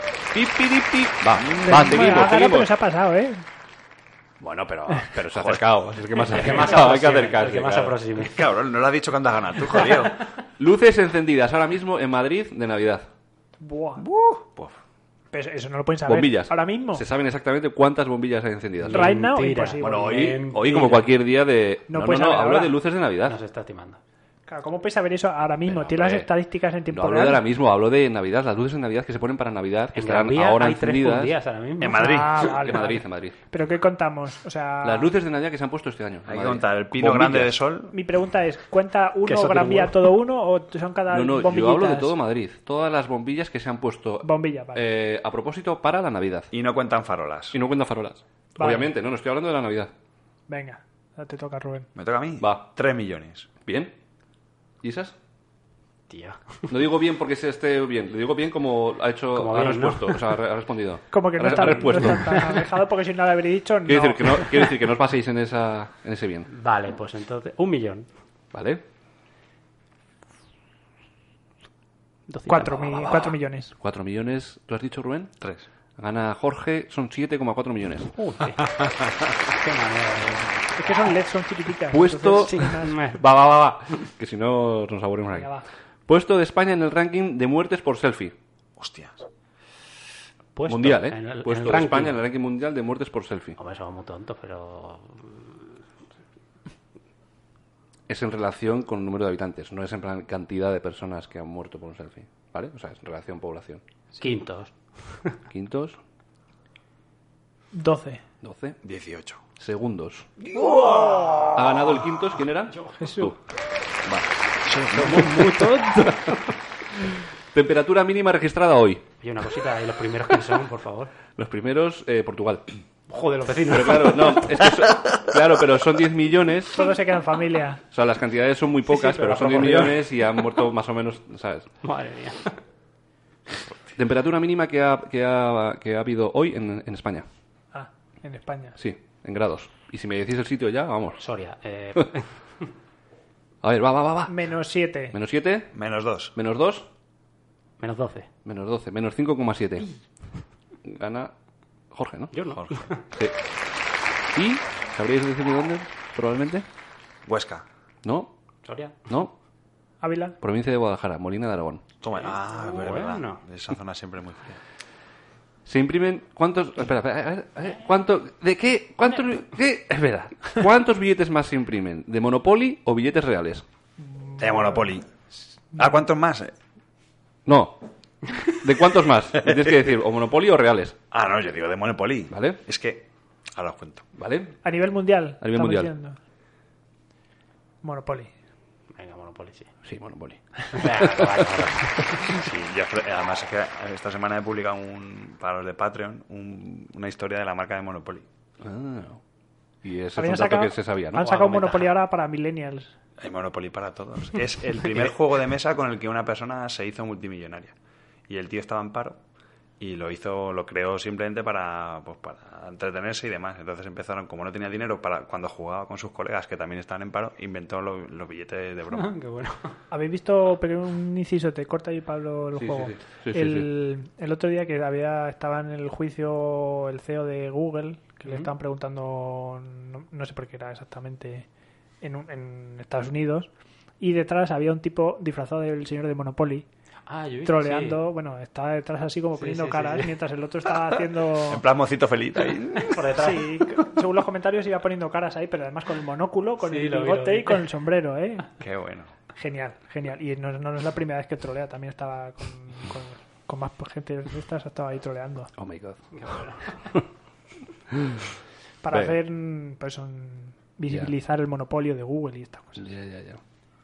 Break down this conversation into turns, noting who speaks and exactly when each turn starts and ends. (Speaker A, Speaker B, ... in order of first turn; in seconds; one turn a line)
Speaker A: 0.3-2.7
Speaker B: 1.6-3.4
Speaker A: 4.4-8.0
Speaker C: 5.3-5.6
Speaker D: 6.2-8.5
Speaker C: 8.2-10.2
Speaker A: 10.6-13.1
Speaker B: 13.6-14.0
Speaker C: 14.0-14.7
Speaker B: 15.3-17.0
Speaker A: 16.1-19.2
Speaker D: 18.8-21.1
Speaker B: 18.9-20.3
Speaker A: 19.8-23.4
Speaker B: 21.9-22.8
Speaker D: 23.2-24.0
Speaker B: 24.5-27.4
Speaker A: 25.7-26.3
Speaker A: 26.9-31.4
Speaker D: 29.9-32.4
Speaker C: 31.8-32.6
Speaker B: 31.9-35.1
Speaker A: 32.4-33.4
Speaker A: 34.8-37.5
Speaker C: 36.3-37.9
Speaker B: 37.9-42.1
Speaker D: 39.2-40.1
Speaker A: 41.1-46.5
Speaker B: 44.2-44.9
Speaker C: 46.5-47.6
Speaker A: 47.5-49.9
Speaker B: 48.6-48.9
Speaker B: 50.5-51.9
Speaker C: 52.0-53.5
Speaker A: 52.4-52.7
Speaker A: 53.6-53.9
Speaker A: 54.8-55.1
Speaker D: 56.1-56.7
Speaker A: 56.7-62.5
Speaker D: 59.3-60.4
Speaker B: 61.1-64.7
Speaker D: 61.5-62.5
Speaker A: 63.8-66.5
Speaker D: 66.5-68.1
Speaker A: 68.5-68.8
Speaker D: 72.3-73.2
Speaker B: 72.5-73.7
Speaker A: 73.8-75.3
Speaker C: 75.4-75.7
Speaker A: 76.0-78.1
Speaker D: 78.1-79.0
Speaker D: 79.5-80.9
Speaker B: 80.8-83.0
Speaker A: 81.9-85.5
Speaker D: 82.3-83.2
Speaker B: 85.3-85.6
Speaker A: 86.1-88.3
Speaker C: 88.8-89.2
Speaker D: 90.5-92.2
Speaker A: 90.7-93.6
Speaker D: 93.6-95.6
Speaker A: 98.1-103.8
Speaker D: 104.2-105.4
Speaker A: 105.5-106.0
Speaker B: 107.7-108.2
Speaker A: 108.4-108.8
Speaker C: 108.8-109.4
Speaker A: 109.6-110.3
Speaker C: 110.5-111.3
Speaker D: 110.6-111.5
Speaker A: 111.5-113.4
Speaker D: 112.7-113.0
Speaker B: 113.0-113.3
Speaker C: 114.7-115.5
Speaker D: 114.9-116.4
Speaker A: 115.0-115.3
Speaker A: 115.9-116.3
Speaker A: 117.5-119.1
Speaker D: 119.2-121.1
Speaker A: 121.3-122.7
Speaker D: 123.1-124.7
Speaker A: 123.7-126.9
Speaker B: 126.8-127.8
Speaker A: 127.9-131.7
Speaker D: 128.9-130.4
Speaker D: 131.8-132.6
Speaker A: 133.9-137.2
Speaker B: 137.7-138.8
Speaker A: 138.8-141.2
Speaker D: 141.2-142.7
Speaker A: 143.6-144.5
Speaker B: 144.3-145.2
Speaker A: 145.1-145.7
Speaker C: 145.7-146.3
Speaker A: 146.3-146.9
Speaker D: 147.8-148.3
Speaker A: 148.4-149.9
Speaker A: 150.8-151.3
Speaker A: 151.9-152.6
Speaker D: 152.3-153.0
Speaker C: 152.6-152.9
Speaker A: 153.1-153.4
Speaker A: 154.3-156.7
Speaker C: 157.2-157.6
Speaker A: 158.0-158.3
Speaker D: 158.6-159.0
Speaker A: 159.1-159.3
Speaker B: 160.0-160.4
Speaker A: 160.4-161.8
Speaker C: 162.0-164.6
Speaker D: 162.1-163.4
Speaker A: 165.6-173.6
Speaker B: 174.1-174.8
Speaker C: 174.4-175.1
Speaker C: 175.7-176.5
Speaker A: 177.4-177.8
Speaker A: 178.3-180.9
Speaker C: 181.1-184.1
Speaker A: 182.3-182.6
Speaker A: 184.2-184.6
Speaker B: 184.6-186.2
Speaker A: 185.4-185.9
Speaker B: 187.8-188.3
Speaker D: 188.9-189.7
Speaker A: 189.8-191.5
Speaker D: 190.7-192.4
Speaker C: 192.3-198.3
Speaker A: 198.6-199.2
Speaker A: 199.8-201.3
Speaker B: 200.2-202.9
Speaker D: 201.2-201.9
Speaker C: 203.2-207.7
Speaker C: 208.3-209.2
Speaker C: 209.8-219.1
Speaker D: 218.9-219.8
Speaker B: 219.9-231.5
Speaker A: 222.6-223.7
Speaker B: 232.0-236.7
Speaker D: 237.1-238.0
Speaker B: 237.4-241.6
Speaker D: 239.4-240.2
Speaker C: 241.5-243.0
Speaker D: 242.9-243.6
Speaker B: 243.2-248.5
Speaker D: 246.6-247.7
Speaker C: 248.6-249.1
Speaker B: 249.3-255.5
Speaker A: 255.6-256.4
Speaker D: 256.1-257.0
Speaker A: 257.9-258.3
Speaker B: 258.8-262.9
Speaker A: 258.9-259.2
Speaker A: 260.9-261.1
Speaker A: 262.8-263.4